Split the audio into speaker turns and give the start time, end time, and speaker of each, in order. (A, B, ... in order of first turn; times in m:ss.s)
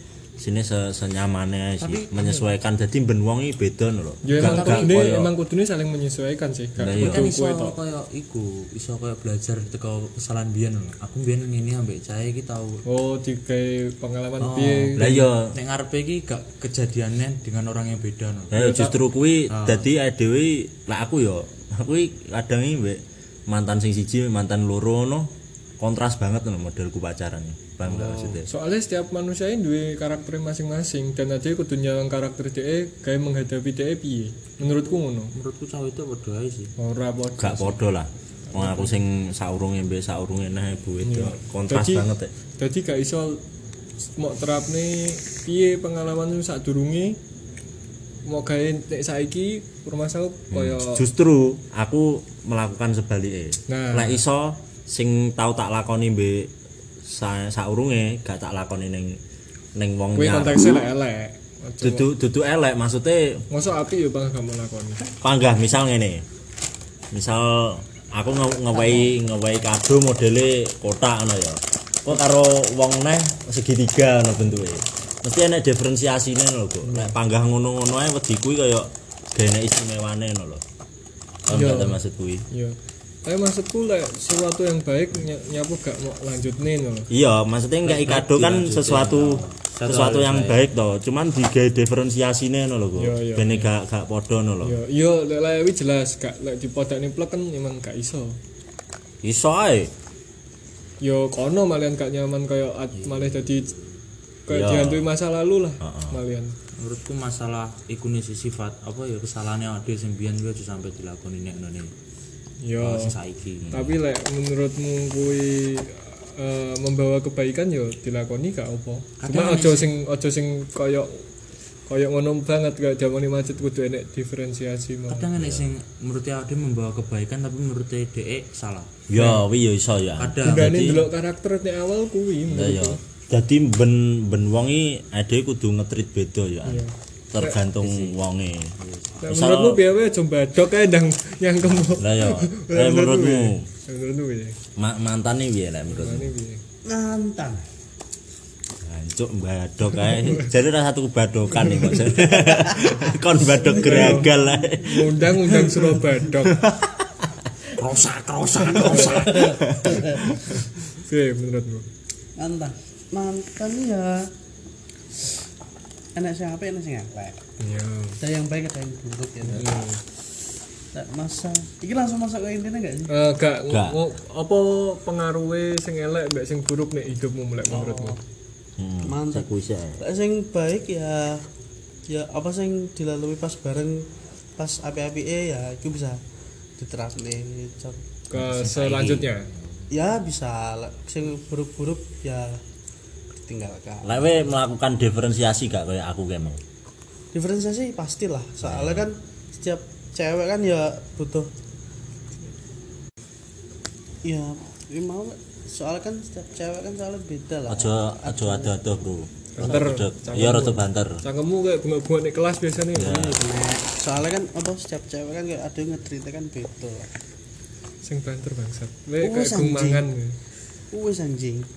0:00.4-0:05.3 A
0:01.8-0:02.5 B
0:04.2-0:07.7 C
0:04.3-0:05.1 B
0:06.8-0:07.3 A
0:06.9-0:12.8 B
0:12.8-0:15.3 C
0:14.4-0:18.5 B
0:15.0-0:15.5 A
0:18.5-0:28.5 A
0:18.5-0:18.9 C
0:19.5-0:19.8 B
0:27.8-0:28.4 B
0:28.5-0:35.3 C
0:35.3-0:36.7 B
0:36.8-0:37.7 C
0:37.4-0:42.3 A
0:38.5-0:39.0 C
0:41.0-0:43.4 C
0:44.2-0:47.2 C
0:48.2-0:51.0 C
0:50.5-0:59.2 A
0:53.7-0:54.2 C
0:59.7-1:00.8 A
1:00.1-1:02.0 C
1:01.8-1:03.4 A
1:03.5-1:05.0 C
1:05.2-1:06.2 A
1:07.1-1:20.6 A
1:21.5-1:22.4 A
1:21.5-1:27.1 C
1:27.1-1:34.8 A
1:27.8-1:30.7 B
1:33.0-1:33.6 C
1:34.6-1:38.4 C
1:39.2-1:39.9 A
1:41.0-1:43.7 C
1:43.0-1:43.8 B
1:44.5-1:46.5 C
1:44.5-1:45.1 A
1:45.8-1:46.2 A
1:46.8-1:51.9 B
1:52.6-1:53.1 C
1:52.8-1:53.7 B
1:53.6-1:54.0 A
1:53.7-2:01.3 C
1:59.2-1:59.9 B
2:01.9-2:05.3 C
2:05.1-2:09.0 B
2:05.3-2:05.7 A
2:09.1-2:11.1 A
2:09.1-2:09.4 C
2:10.2-2:11.0 B
2:10.4-2:13.0 C
2:12.5-2:19.8 A
2:16.6-2:17.6 C
2:17.8-2:18.1 B
2:18.8-2:19.2 B
2:19.2-2:24.6 C
2:21.9-2:23.7 A
2:24.8-2:26.3 A
2:25.9-2:26.6 C
2:26.8-2:27.6 D
2:28.8-2:40.6 A
2:32.1-2:34.4 D
2:33.6-2:36.6 C
2:37.8-2:39.5 B
2:38.7-2:40.3 D
2:38.7-2:39.1 C
2:40.4-2:41.8 C
2:42.4-2:44.3 D
2:46.1-2:47.4 D
2:47.6-2:48.2 C
2:48.2-2:49.8 D
2:49.5-2:50.0 C
2:50.9-2:53.1 D
2:53.1-2:58.2 C
2:53.7-2:54.0 A
2:57.7-2:58.2 D
2:58.8-3:00.0 A
2:59.0-3:01.4 D
3:02.1-3:06.2 D
3:06.8-3:08.0 D
3:08.3-3:09.5 C
3:08.3-3:09.9 B
3:09.9-3:12.6 D
3:13.3-3:14.3 D
3:14.0-3:16.6 A
3:17.3-3:21.5 D
3:18.6-3:19.1 A
3:24.2-3:28.7 D
3:27.7-3:31.2 A
3:29.5-3:33.2 C
3:32.9-3:33.4 A
3:32.9-3:37.1 D
3:38.0-3:40.4 C
3:39.2-3:40.1 D
3:40.9-3:41.7 D